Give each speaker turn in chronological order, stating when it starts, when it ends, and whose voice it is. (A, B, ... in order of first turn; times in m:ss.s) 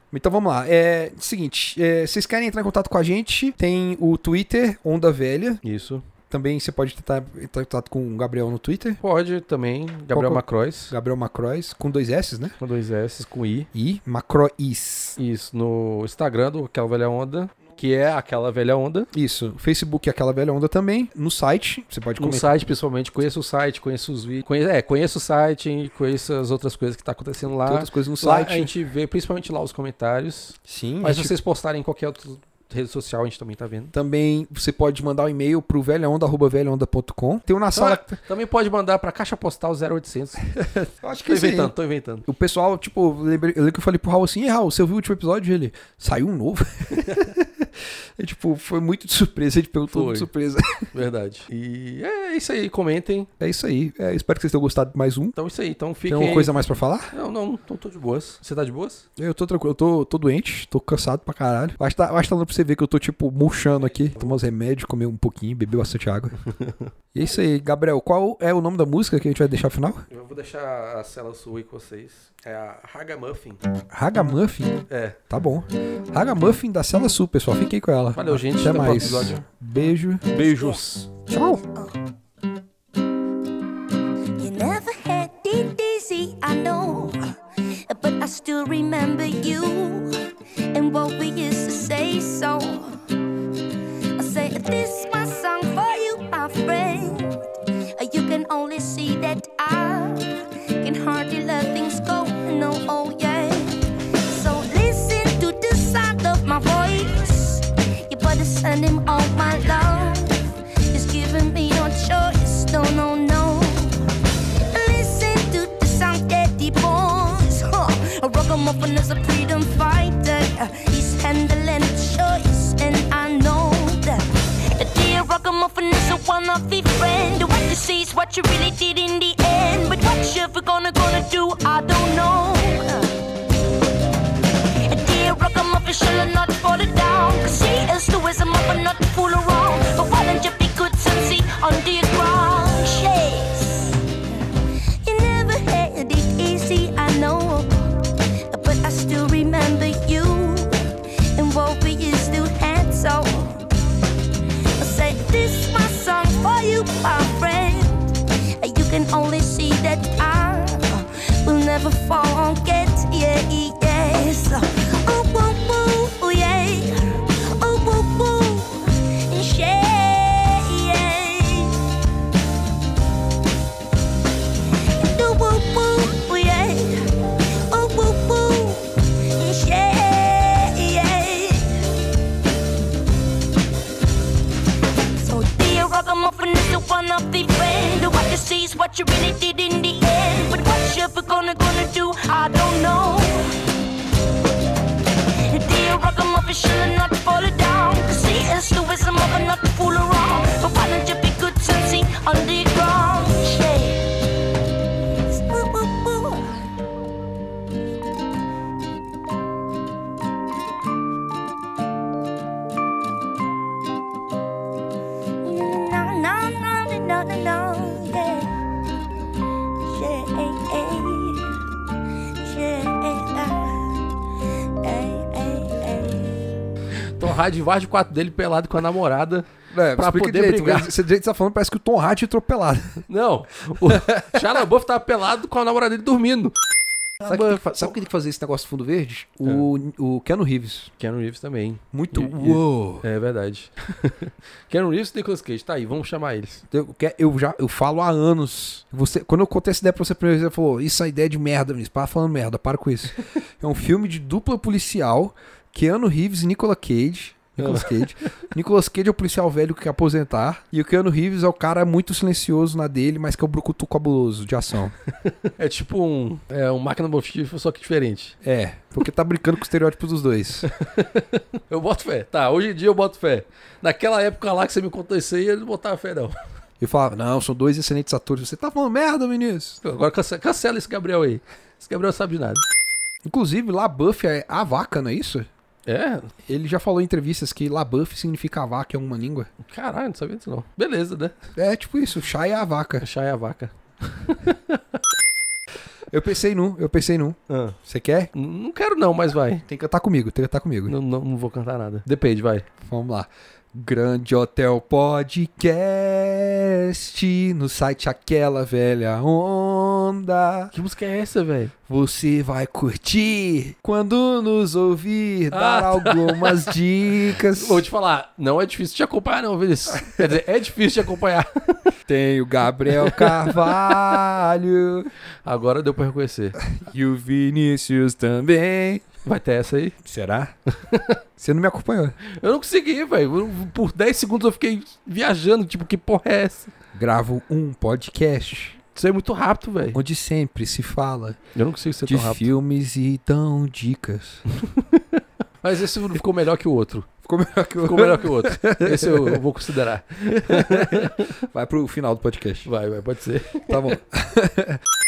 0:00.1-0:05.6 A
0:05.6-0:06.0 B
0:06.3-0:09.0 A
0:09.0-0:10.9 B
0:10.1-0:12.5 A
0:12.6-0:13.7 B
0:13.7-0:15.2 A
0:15.2-0:19.1 B
0:19.1-0:22.5 A
0:22.2-0:33.9 B
0:27.6-0:28.7 A
0:30.7-0:31.3 A
0:33.9-0:38.2 A
0:37.7-0:42.3 B
0:41.0-0:41.7 A
0:42.2-0:50.9 A
0:47.0-0:47.3 B
0:49.9-0:50.3 B
0:50.9-0:53.3 B
0:53.4-0:55.4 A
0:55.3-0:59.0 B
0:56.1-0:57.1 A
0:59.2-1:06.4 A
1:06.4-1:06.9 B
1:07.1-1:10.0 A
1:10.1-1:13.6 B
1:13.9-1:20.4 A
1:14.9-1:15.2 B
1:18.1-1:19.4 B
1:20.3-1:21.1 B
1:21.3-1:21.6 A
1:21.6-1:22.0 C
1:24.4-1:30.1 C
1:30.7-1:33.0 C
1:34.2-1:37.4 C
1:38.0-1:54.0 C
1:54.7-2:13.2 C
2:14.8-2:33.6 C
2:34.8-2:51.8 C
2:55.0-2:57.1 C
2:57.7-3:01.8 C
3:05.2-3:13.6 C
3:15.5-3:24.1 C
3:25.3-3:26.6 C
3:35.4-3:38.5 C
3:39.8-3:41.6 C
3:42.4-3:44.0 C
3:44.8-3:46.5 C
3:46.9-3:50.9 B
3:49.7-3:53.0 A
3:53.1-3:56.5 B
3:53.8-3:54.2 A
3:57.2-4:00.9 A
3:57.3-3:57.6 B
4:01.0-4:06.6 B
4:01.9-4:03.0 A
4:06.7-4:24.9 A
4:17.6-4:18.0 B
4:25.2-4:28.3 B
4:28.4-4:30.7 A
4:30.6-4:36.4 B
4:36.8-4:39.8 A
4:39.8-4:42.6 B
4:43.2-4:45.5 A
4:45.8-4:46.3 B
4:46.4-4:49.5 A
4:49.6-4:51.3 B
4:51.6-4:53.0 A
4:53.0-4:55.0 B
4:56.1-4:58.3 A
4:57.5-4:57.8 B
4:58.3-4:59.6 B
4:59.6-5:00.9 A
5:00.9-5:02.7 B
5:02.8-5:10.7 A
5:10.7-5:11.7 B
5:11.9-5:17.8 A
5:15.5-5:16.7 B
5:17.3-5:21.8 B
5:22.0-5:25.1 A
5:22.9-5:24.0 B
5:25.4-5:26.6 B
5:26.6-5:29.0 A
5:29.2-5:29.9 B
5:30.0-5:30.5 A
5:30.7-5:31.2 B
5:31.4-5:32.2 A
5:32.2-5:36.7 B
5:36.9-5:38.8 A
5:38.9-5:40.0 B
5:39.9-5:41.4 A
5:41.5-5:42.5 B
5:42.0-5:44.4 A
5:44.5-5:47.1 B
5:47.2-5:49.4 A
5:47.8-5:51.3 B
5:50.4-5:52.7 A
5:52.6-5:54.0 B
5:53.7-5:54.8 A